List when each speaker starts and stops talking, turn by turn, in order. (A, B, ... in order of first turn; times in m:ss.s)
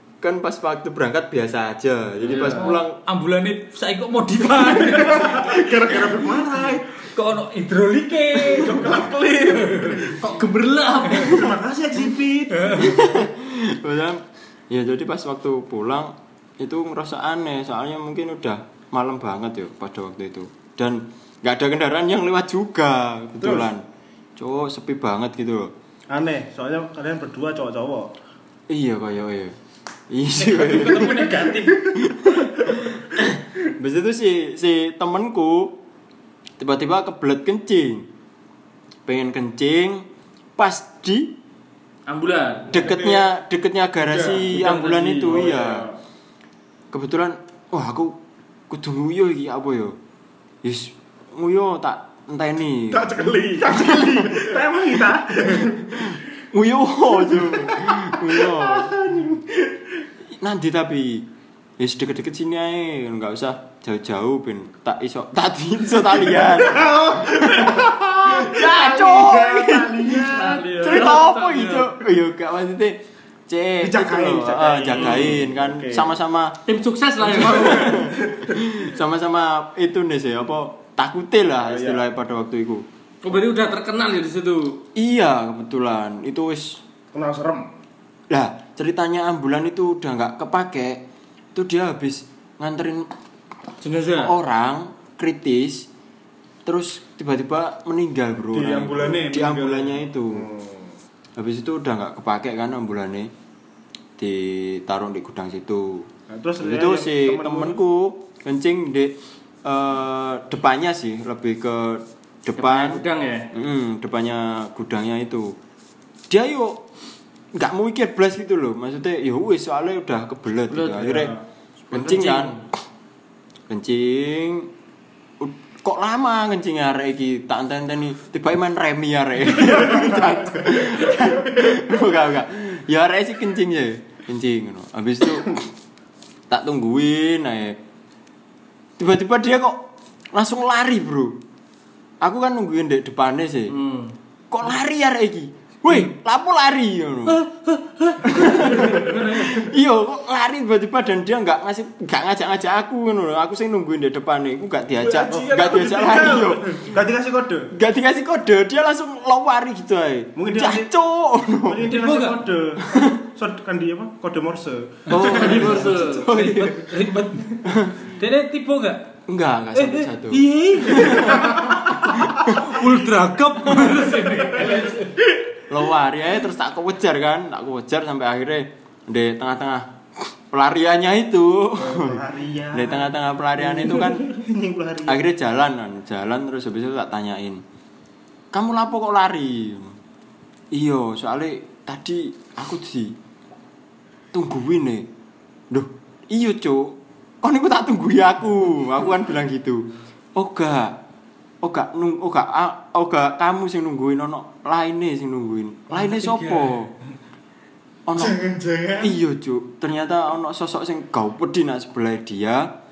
0:00.2-0:03.0 A
0:02.4-0:06.1 B
0:04.8-0:07.0 C
0:07.0-0:09.0 B
0:08.5-0:10.2 C
0:09.5-0:10.1 B
0:10.0-0:11.6 D
0:11.2-0:13.0 C
0:12.6-0:13.0 B
0:12.7-0:23.8 A
0:23.4-0:23.7 C
0:24.4-0:25.7 A
0:26.1-0:28.1 C
0:28.7-0:29.6 A
0:30.1-0:35.8 A
0:30.4-0:31.9 B
0:36.6-0:38.1 A
0:39.1-0:41.4 A
0:42.1-0:42.8 D
0:42.7-0:45.9 A
0:42.8-0:43.3 E
0:44.1-0:44.5 E
0:44.7-0:46.0 C
0:46.9-0:48.2 A
0:48.7-0:50.0 A
0:50.6-0:54.5 A
0:52.9-0:56.1 C
0:55.5-0:59.0 A
0:57.2-0:59.7 C
1:00.3-1:16.6 A
1:06.4-1:10.8 C
1:10.3-1:11.9 D
1:13.8-1:16.1 C
1:16.7-1:18.1 D
1:17.3-1:22.8 A
1:17.4-1:18.5 C
1:21.6-1:22.0 C
1:23.2-1:24.8 D
1:25.0-1:26.8 A
1:27.1-1:27.7 C
1:28.3-1:31.0 A
1:31.5-1:33.1 A
1:33.8-1:34.3 D
1:34.2-1:35.9 A
1:36.6-1:40.5 A
1:38.5-1:40.0 E
1:40.3-1:40.9 C
1:41.4-1:43.3 A
1:44.2-1:55.6 A
1:46.3-1:47.8 C
1:52.6-1:53.5 D
1:56.3-1:56.8 A
1:57.5-2:01.4 A
2:00.7-2:01.4 D
2:01.9-2:02.6 D
2:01.9-2:02.6 A
2:03.7-2:04.7 A
2:05.4-2:15.7 A
2:16.5-2:17.8 A
2:19.0-2:19.8 A
2:20.3-2:21.4 A
2:22.2-2:23.8 A
2:23.7-2:24.1 D
2:24.5-2:27.4 A
2:27.3-2:29.0 D
2:28.2-2:36.9 A
2:35.1-2:36.5 E
2:35.2-2:37.7 C
2:37.7-2:42.0 A
2:40.4-2:40.9 C
2:41.6-2:45.8 C
2:41.9-2:42.4 B
2:42.9-2:43.2 A
2:45.1-2:46.9 A
2:45.1-2:46.3 D
2:46.2-2:49.1 B
2:47.6-2:48.0 A
2:49.3-2:52.8 A
2:49.8-2:55.2 B
2:51.0-2:51.5 C
2:55.7-3:04.3 A
3:01.8-3:05.2 C
3:05.0-3:07.6 A
3:08.5-3:10.0 A
3:10.7-3:13.2 A
3:14.3-3:15.1 A
3:15.7-3:21.0 A
3:21.6-3:26.9 A
3:26.0-3:26.8 B
3:28.1-3:28.4 A
3:28.4-3:29.0 E
3:29.0-3:32.7 A